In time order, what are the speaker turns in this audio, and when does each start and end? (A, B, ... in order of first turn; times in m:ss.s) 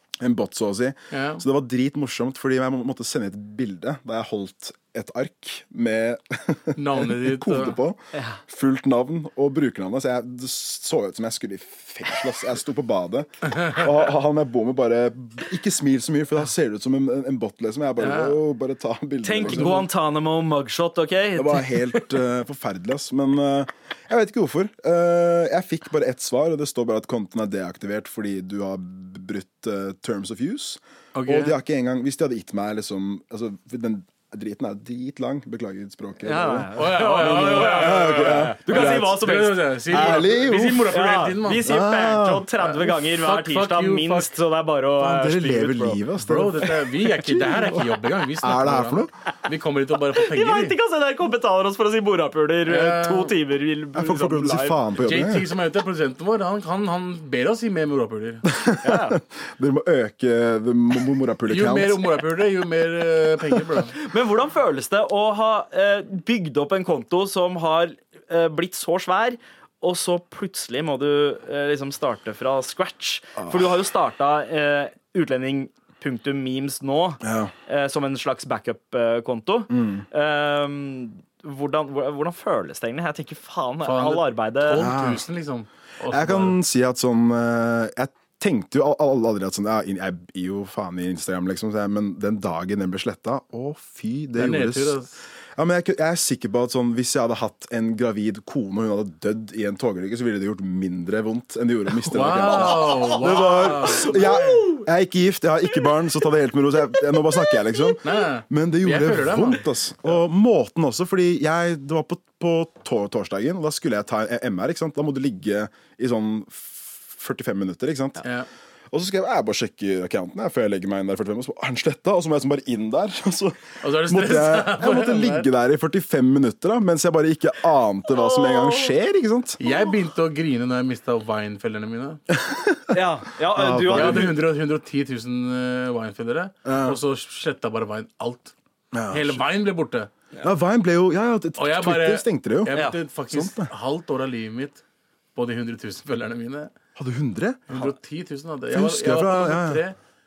0:00.2-0:19.8 A
0:01.1-0:01.4 B
0:06.8-0:07.8 B
0:08.1-0:08.4 C
0:18.0-0:18.4 B
0:19.2-0:22.1 C
0:19.4-0:19.9 B
0:21.4-0:39.2 A
0:31.1-0:31.6 B
0:36.2-0:40.3 C
0:36.7-0:41.8 B
0:39.9-0:41.0 A
0:40.8-0:46.0 C
0:41.6-0:42.5 A
0:42.6-0:44.4 B
0:45.0-0:49.1 A
0:46.2-0:50.8 B
0:50.1-0:54.8 C
0:52.6-0:53.4 B
0:54.0-0:55.5 A
0:55.0-0:58.4 B
0:58.4-1:02.1 A
0:58.8-0:59.2 C
1:01.5-1:04.0 B
1:03.9-1:24.9 C
1:13.4-1:13.6 A
1:17.2-1:17.5 A
1:19.7-1:20.0 A
1:23.8-1:26.6 B
1:24.7-1:25.2 A
1:26.1-1:35.0 A
1:34.4-1:35.1 B
1:35.6-1:58.2 A
1:42.0-1:44.4 B
1:42.4-1:44.8 C
1:47.4-1:47.8 C
1:48.0-1:49.6 B
1:58.2-1:58.5 B
1:58.9-2:09.6 A
2:03.8-2:05.5 B
2:08.1-2:08.9 C
2:09.6-2:12.2 B
2:12.4-2:14.4 A
2:12.9-2:14.4 C
2:13.9-2:18.5 B
2:16.6-2:17.0 A
2:18.9-2:19.4 A
2:19.1-2:20.1 B
2:20.4-2:23.7 A
2:21.6-2:24.8 B
2:22.7-2:23.0 C
2:25.4-2:26.7 B
2:27.0-2:27.8 A
2:27.7-2:30.0 B
2:28.7-2:29.8 A